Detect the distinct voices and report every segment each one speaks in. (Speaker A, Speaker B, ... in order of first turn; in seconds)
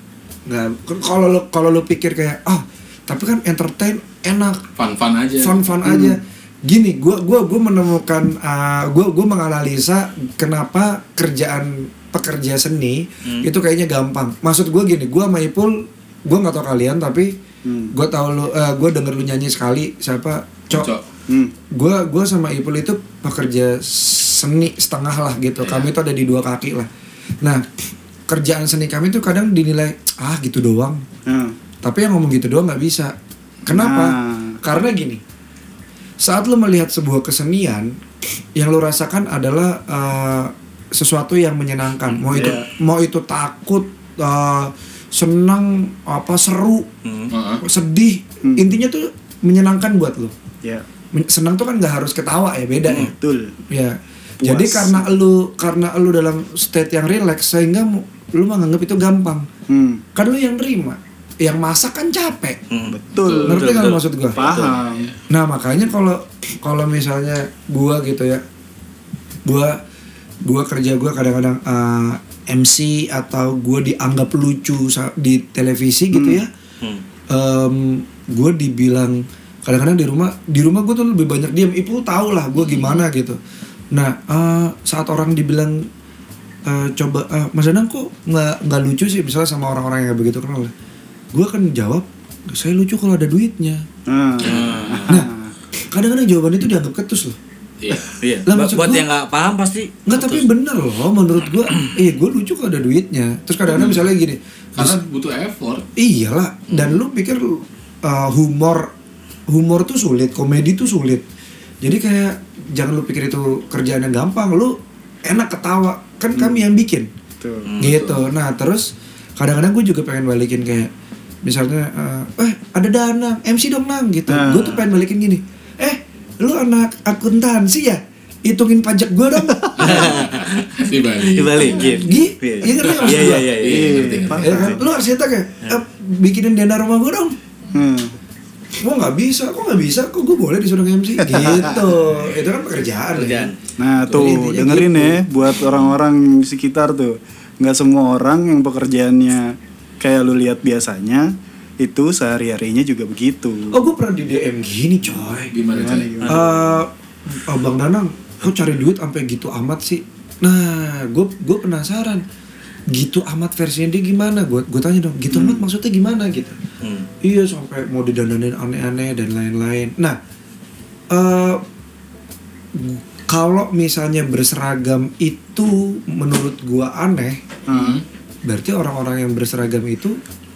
Speaker A: 0.5-4.6, 5.4-17.3, 17.9-20.9, 21.7-26.9, 28.3-31.0, 31.8-33.1, 33.6-35.2, 36.2-38.0, 38.6-46.9, 47.6-50.3, 51.1-53.1, 53.7-59.5, 60.1-62.6, 63.5-64.4, 65.3-68.4, 69.5-69.8, 70.5-76.5, 77.3-83.4, 83.9-85.9, 86.7-90.7, 91.3-93.8, 95.9-97.4, 98.5-99.0, 100.1-105.0, 106.0-108.9, 109.5-111.2, 111.8-117.1, 117.8-120.9, 121.4-130.1, 131.8-133.5, 134.4-137.4, 138.8-143.5, 144.1-145.2, 153.7-155.5, 156.3-162.2, 162.9-166.6, 167.2-170.2, 171.1-171.6, 172.8-177.4, 178.4-180.2
Speaker B: 4.8-5.6, 20.7-21.0, 25.6-25.9, 47.3-47.6, 63.2-63.6, 64.4-65.2, 94.4-95.0, 97.8-98.1, 104.8-105.8, 106.7-107.0, 117.8-118.2, 129.8-132.1, 132.8-134.8, 144.1-144.4, 155.5-156.1, 177.7-178.0
Speaker C: 5.8-6.2, 17.6-17.9, 21.3-21.5, 31.3-31.6, 33.7-34.6, 42.3-42.7, 48.4-48.7, 52.9-53.5, 54.4-55.1, 59.7-60.0, 62.9-65.1, 76.1-76.4, 94.1-95.5, 116.3-116.6, 117.4-117.7, 124.3-124.9, 133.2-134.9, 137.7-138.2, 141.2-141.8, 143.8-153.8, 155.7-156.7, 165.3-165.6, 177.7-178.0
Speaker D: 47.0-47.3, 62.7-64.8, 82.6-83.0, 94.4-95.2, 98.1-100.5, 117.7-118.2, 129.8-130.6, 131.2-134.0, 143.1-143.6, 156.2-156.5, 166.8-167.1